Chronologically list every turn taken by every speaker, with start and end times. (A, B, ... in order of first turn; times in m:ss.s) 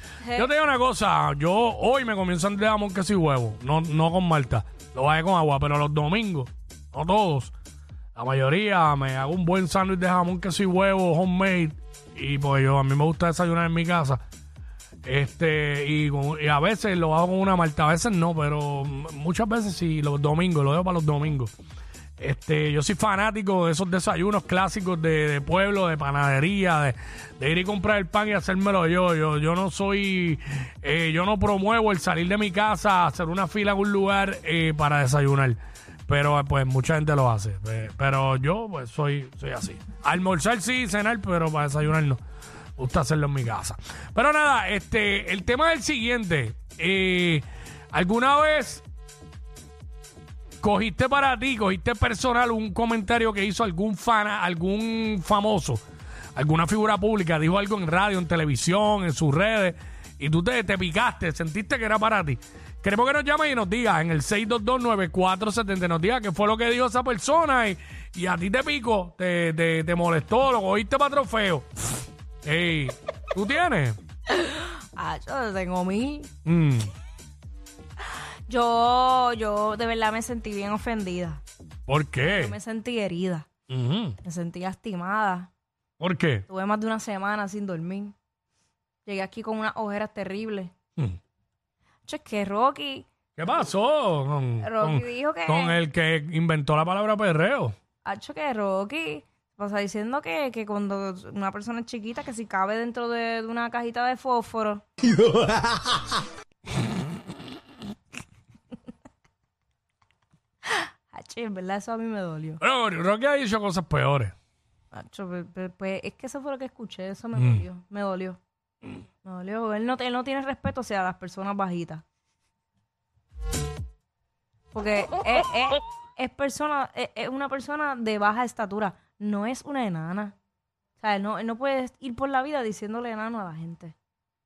0:00.4-0:07.5 A
0:08.1-0:14.2 A
0:15.0-0:21.5 A
0:22.2-0:42.2 A
0:42.8-0:48.8 A
0:50.6-0:55.8 A
0:56.4-1:11.7 A
1:12.4-1:14.0 A
1:14.3-1:16.3 B
1:16.4-1:16.9 A
1:18.0-1:21.4 B
1:21.9-1:22.5 A
1:22.2-1:23.5 B
1:23.7-1:24.2 A
1:24.2-1:25.5 B
1:26.0-1:26.4 A
1:26.5-1:28.1 B
1:29.0-1:30.7 B
1:32.0-1:33.0 B
1:33.4-1:37.7 A
1:34.6-1:35.8 B
1:38.0-1:44.8 B
1:50.7-1:52.6 B
1:52.6-1:54.3 A
1:54.9-1:58.4 B
1:57.3-1:57.6 A
1:59.2-2:02.0 B
2:04.7-2:10.3 B
2:11.0-2:13.9 B